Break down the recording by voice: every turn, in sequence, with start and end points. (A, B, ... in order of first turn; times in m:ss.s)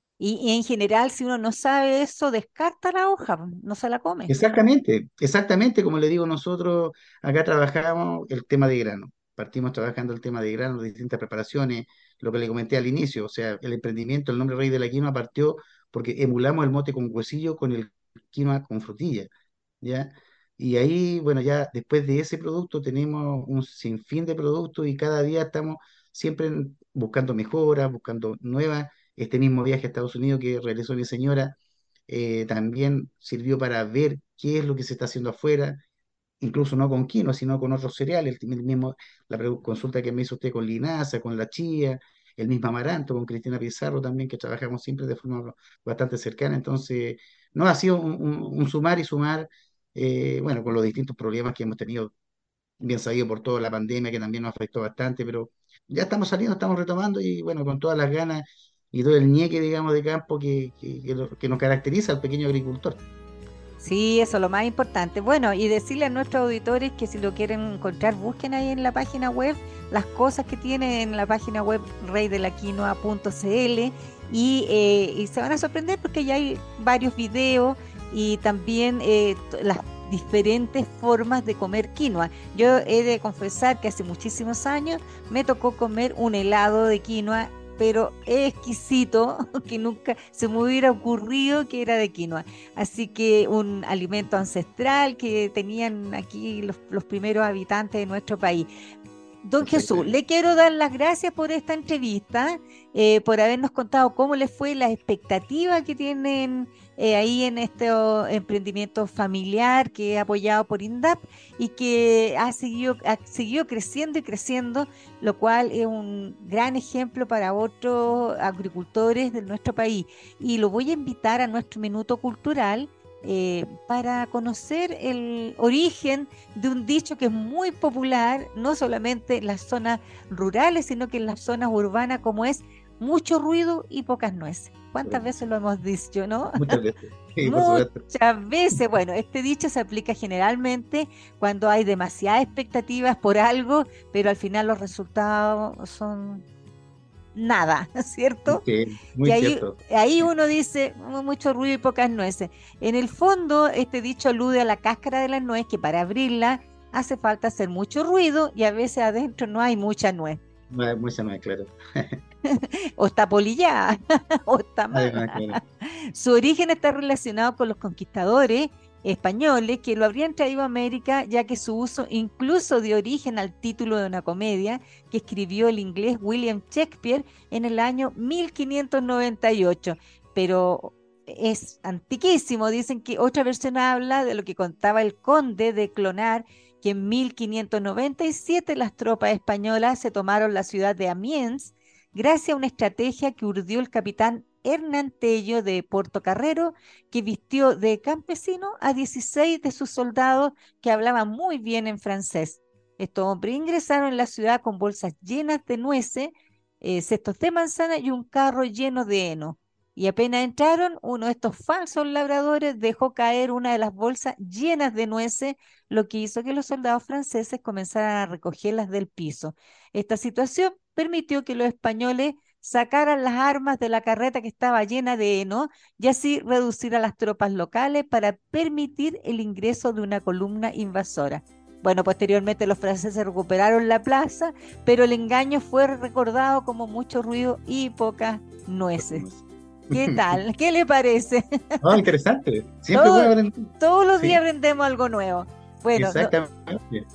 0:00.2-0:04.4 A
0:04.3-0:19.3 B
0:19.8-0:31.6 B
0:32.1-0:35.8 B
0:36.4-0:52.1 B
0:52.8-1:03.0 B
1:03.8-1:38.7 A
1:39.4-2:16.8 A
1:39.6-1:40.1 B
2:15.0-2:15.3 B
2:16.6-2:18.0 B
2:17.4-2:26.4 A
2:27.4-2:28.6 A
2:28.5-2:29.8 B
2:29.2-2:40.4 A
2:40.7-2:42.2 B
2:42.5-3:59.3 A
2:44.9-2:45.6 B
3:59.0-4:00.4 B
3:59.9-4:02.0 A
4:01.8-4:04.4 B
4:02.9-4:06.3 A
4:06.0-4:07.1 B